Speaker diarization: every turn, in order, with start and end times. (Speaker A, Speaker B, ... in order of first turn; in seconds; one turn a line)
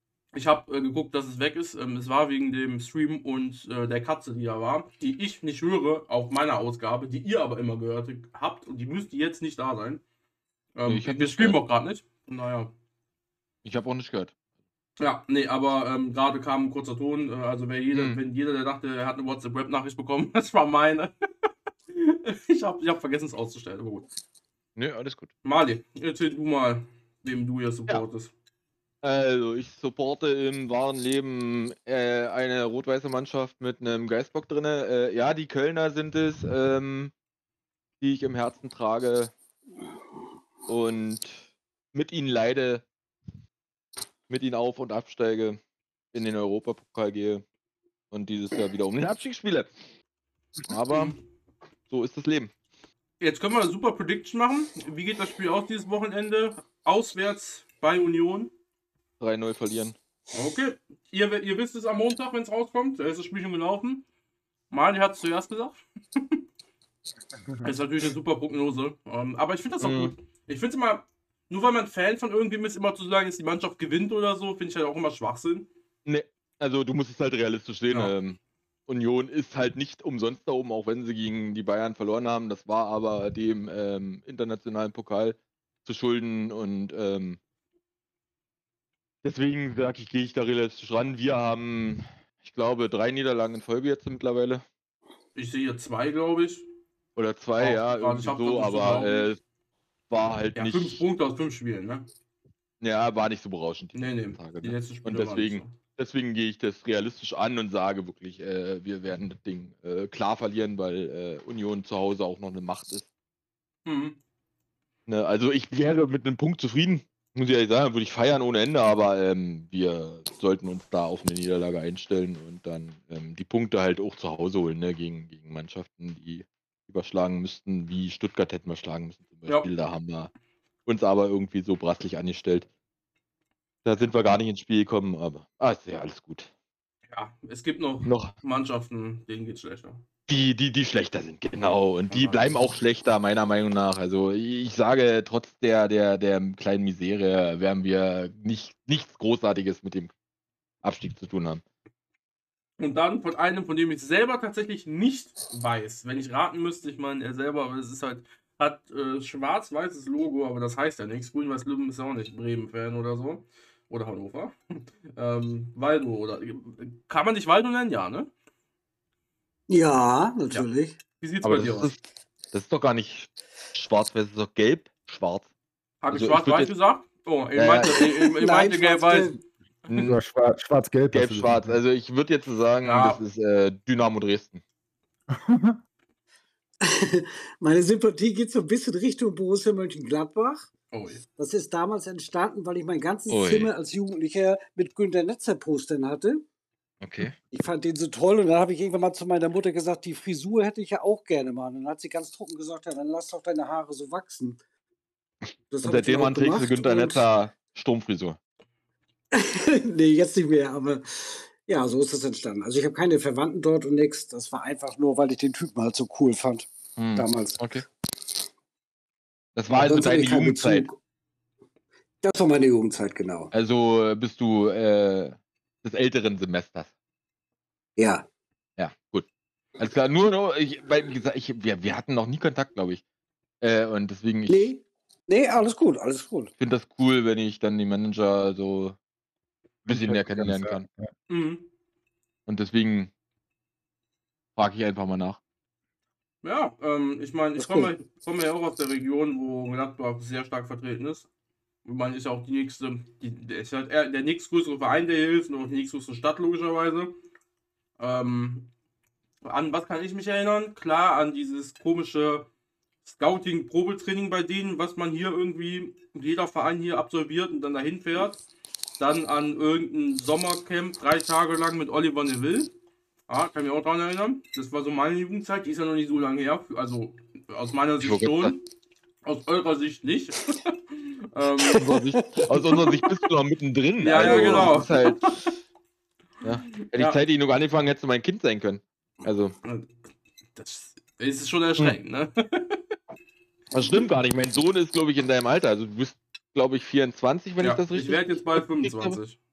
Speaker A: 0.3-10.0
Speaker A: 10.7-12.7
Speaker B: 10.9-11.6
Speaker B: 13.6-14.3
Speaker A: 15.0-21.1
Speaker B: 17.9-18.2
Speaker A: 21.9-24.1
Speaker B: 24.8-25.3
Speaker A: 25.4-28.3
Speaker B: 29.0-37.1
Speaker B: 38.0-39.3
Speaker B: 40.7-42.8
Speaker B: 44.3-45.6
Speaker B: 46.1-47.4
Speaker B: 48.1-49.7
Speaker B: 50.7-51.1
Speaker B: 51.9-52.5
Speaker A: 53.2-58.5
Speaker B: 59.2-60.0
Speaker A: 60.3-64.0
Speaker A: 64.7-66.4
Speaker C: 67.5-67.7
Speaker A: 67.6-75.7
Speaker B: 69.8-70.1
Speaker B: 76.0-87.4
Speaker B: 89.2-94.6
Speaker A: 95.3-96.7
Speaker B: 97.2-99.4
Speaker A: 97.6-99.3
Speaker B: 100.1-101.0
Speaker A: 100.5-102.1
Speaker B: 102.8-113.0
Speaker A: 103.9-105.7
Speaker A: 113.8-114.2
Speaker B: 115.1-130.3
Speaker B: 130.8-132.7
Speaker B: 133.8-136.5
Speaker A: 137.1-140.0
Speaker B: 138.0-138.3
Speaker B: 140.3-150.1
Speaker A: 142.1-142.6
Speaker B: 150.8-151.6
Speaker A: 152.8-164.5
Speaker A: 165.1-168.3
Speaker D: 169.7-171.0
Speaker A: 170.5-171.9
Speaker B: 171.4-175.5
Speaker A: 176.0-179.4
Speaker B: 176.1-176.7
Speaker B: 177.5-178.0
Speaker D: 177.8-179.4
Speaker B: 179.9-180.2
Speaker C: 180.0-181.8
Speaker B: 181.1-184.6
Speaker A: 182.8-183.2
Speaker C: 185.3-185.8
Speaker D: 186.8-190.7
Speaker A: 190.9-191.2
Speaker D: 191.4-196.4
Speaker B: 193.3-193.7
Speaker B: 197.0-197.3
Speaker D: 197.5-204.6
Speaker D: 205.7-207.2
Speaker B: 205.8-208.4
Speaker D: 209.3-217.8
Speaker B: 217.0-217.8
Speaker B: 219.6-220.8
Speaker D: 219.7-220.9
Speaker D: 222.2-223.5
Speaker B: 223.5-226.9
Speaker D: 228.0-228.2
Speaker B: 228.8-229.3
Speaker B: 229.8-233.0
Speaker B: 233.6-234.7
Speaker D: 234.5-236.5
Speaker B: 236.6-238.9
Speaker C: 239.8-241.1
Speaker B: 239.9-240.9
Speaker A: 241.3-241.7
Speaker B: 242.5-243.1
Speaker B: 244.6-245.4
Speaker A: 246.4-251.3
Speaker D: 247.6-247.9
Speaker A: 251.8-257.1
Speaker A: 258.0-258.7
Speaker A: 259.4-262.5
Speaker A: 263.1-268.4
Speaker A: 269.0-272.7
Speaker A: 273.3-278.6
Speaker B: 278.0-278.5
Speaker A: 279.2-281.9
Speaker D: 281.7-282.8
Speaker B: 281.8-285.4
Speaker A: 284.0-285.4
Speaker B: 286.4-289.5
Speaker A: 286.8-287.2
Speaker A: 289.6-289.9
Speaker A: 290.6-292.8
Speaker B: 293.7-299.2
Speaker A: 297.6-299.4